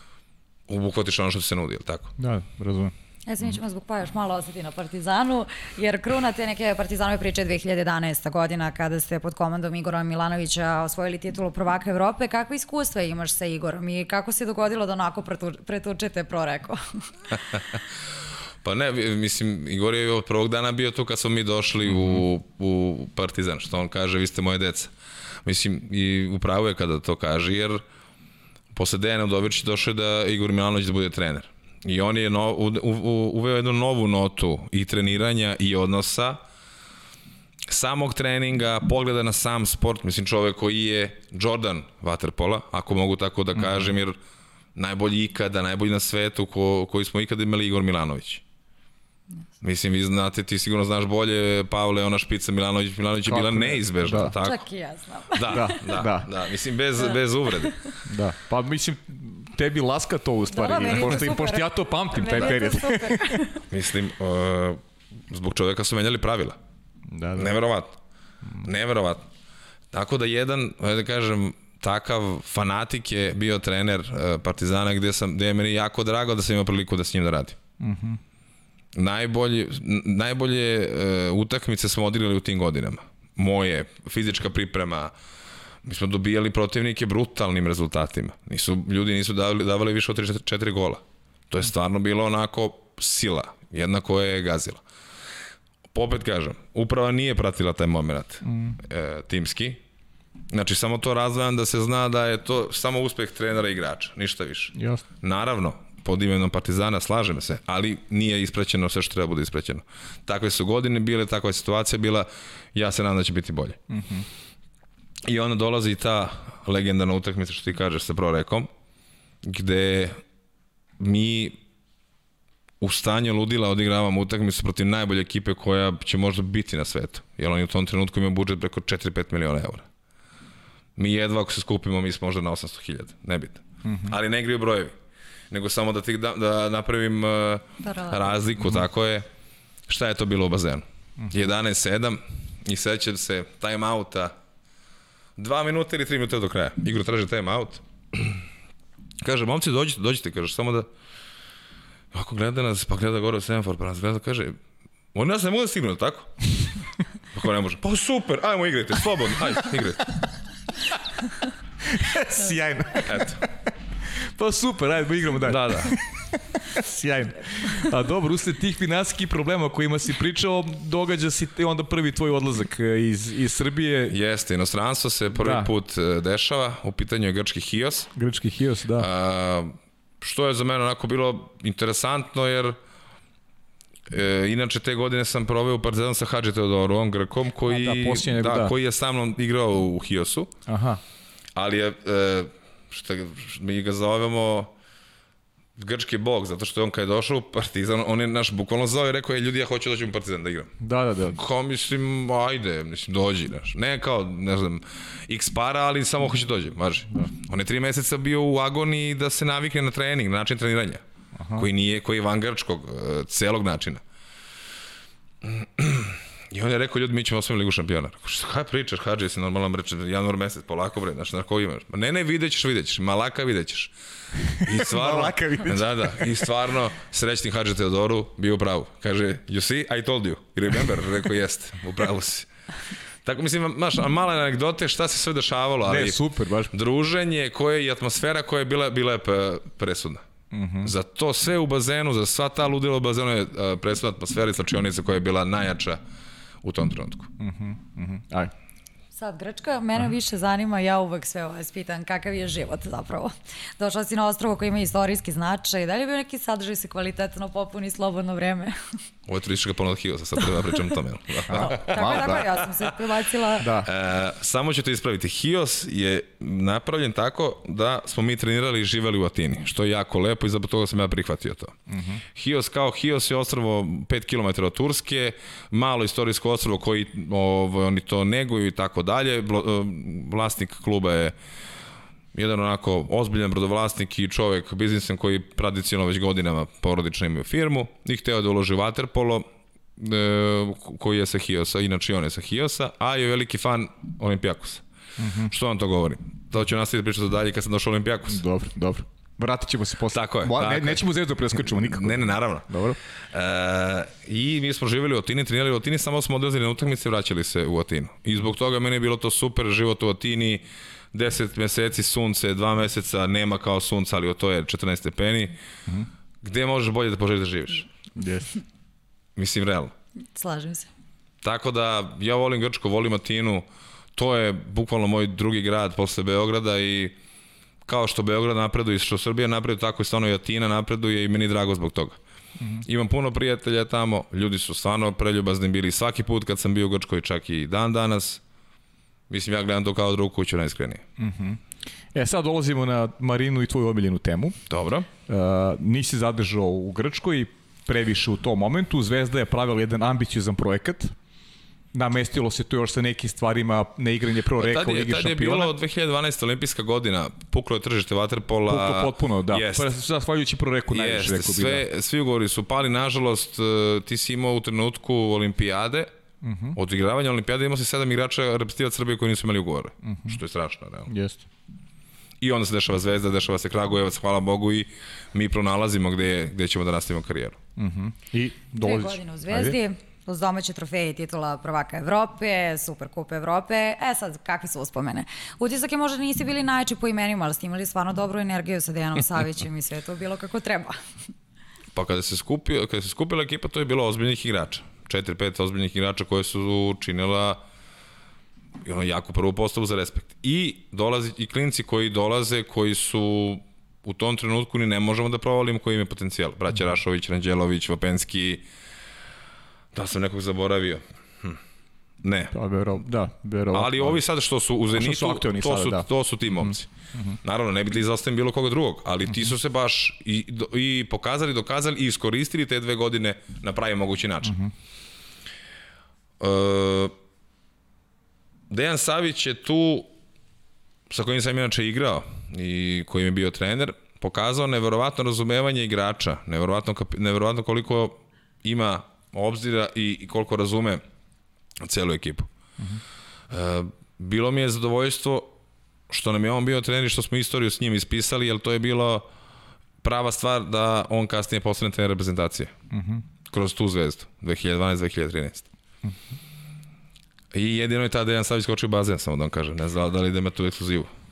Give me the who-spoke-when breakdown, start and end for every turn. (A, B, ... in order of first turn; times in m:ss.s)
0:00.7-0:02.1 A
0:02.2-0:02.9 B
0:03.3-0:17.0 C
0:18.6-0:24.9 A
0:25.4-0:27.8 A
0:28.7-0:36.4 A
0:37.7-0:44.2 A
0:44.7-0:48.4 A
0:49.6-0:54.6 A
0:53.2-0:54.4 B
0:54.4-0:56.0 C
0:55.3-0:57.7 A
0:55.5-0:56.3 B
0:57.0-0:58.0 C
0:58.0-1:03.4 B
1:00.5-1:03.6 C
1:03.7-1:06.6 A
1:07.1-1:07.5 B
1:07.4-1:08.0 A
1:08.6-1:09.2 A
1:09.9-1:17.6 A
1:17.8-1:18.2 B
1:18.9-1:25.1 A
1:25.8-1:34.8 A
1:35.9-1:39.8 A
1:38.4-1:38.8 B
1:40.5-1:53.8 A
1:44.7-1:45.0 B
1:53.9-1:54.2 B
1:55.2-1:58.7 A
1:59.4-2:00.2 A
2:01.0-2:01.6 A
2:02.8-2:09.8 A
2:11.0-2:14.9 A
2:13.8-2:14.1 B
2:15.5-2:19.3 A
2:17.8-2:18.2 C
2:19.9-2:24.3 A
2:25.4-2:28.4 A
2:29.2-2:30.9 A
2:32.1-2:34.6 A
2:35.1-2:36.7 A
2:37.3-2:40.1 A
2:41.9-2:43.4 B
2:43.0-2:43.4 A
2:44.2-2:54.2 B
2:45.4-2:46.0 A
2:54.1-2:58.1 A
2:55.4-2:55.7 B
2:58.1-2:59.1 B
2:59.0-3:02.8 A
3:04.1-3:10.5 A
3:07.7-3:08.7 B
3:10.7-3:11.0 B
3:11.5-3:14.7 A
3:15.8-3:20.7 A
3:20.8-3:21.4 B
3:21.3-3:31.0 A
3:31.4-3:31.7 B
3:31.6-3:34.0 A
3:35.4-3:43.9 A
3:44.6-3:52.5 A
3:44.6-3:46.4 B
3:53.2-3:56.2 A
3:55.9-3:56.7 B
3:56.7-4:00.2 A
4:00.5-4:00.9 B
4:00.8-4:06.0 A
4:06.6-4:07.3 A
4:07.4-4:08.5 B
4:09.2-4:18.8 C
4:19.3-4:22.9 A
4:21.5-4:22.5 B
4:21.5-4:23.8 C
4:23.6-4:23.9 B
4:23.8-4:31.7 A
4:31.9-4:32.2 B
4:32.3-4:41.3 A
4:42.3-4:49.4 A
4:50.0-4:54.8 A
4:55.2-4:55.5 B
4:55.5-4:58.4 A
4:58.3-5:03.0 B
5:00.1-5:15.6 A
5:16.4-5:17.9 A
5:18.2-5:18.5 B
5:19.4-5:19.9 A
5:20.3-5:20.9 C
5:21.4-5:27.2 A
5:27.8-5:32.2 A
5:32.8-5:38.4 A
5:39.3-5:41.0 A
5:41.2-5:41.6 B
5:42.1-5:44.6 B
5:44.7-5:45.1 A
5:45.3-5:51.1 B
5:51.9-5:55.7 B
5:54.6-5:59.9 A
5:58.7-6:01.8 B
6:00.9-6:06.1 A
6:06.4-6:06.8 B
6:06.7-6:11.1 A
6:10.0-6:10.4 B
6:11.1-6:11.4 B
6:12.4-6:17.6 A
6:17.8-6:19.8 B
6:18.8-6:31.0 C
6:31.9-6:37.6 A
6:38.8-6:48.6 A
6:49.9-6:51.6 A
6:52.2-6:52.5 A
6:52.5-6:54.2 B
6:53.7-6:56.9 A
6:54.9-6:56.1 B
6:56.6-6:57.4 B
6:57.4-7:04.6 A
7:04.4-7:04.7 B
7:06.4-7:07.1 A
7:08.7-7:10.1 A
7:11.1-7:21.0 A
7:21.8-7:22.5 A
7:23.5-7:25.5 A
7:26.1-7:29.3 A
7:30.0-7:32.7 A
7:32.9-7:33.2 B
7:33.5-7:35.7 A
7:37.5-7:41.1 A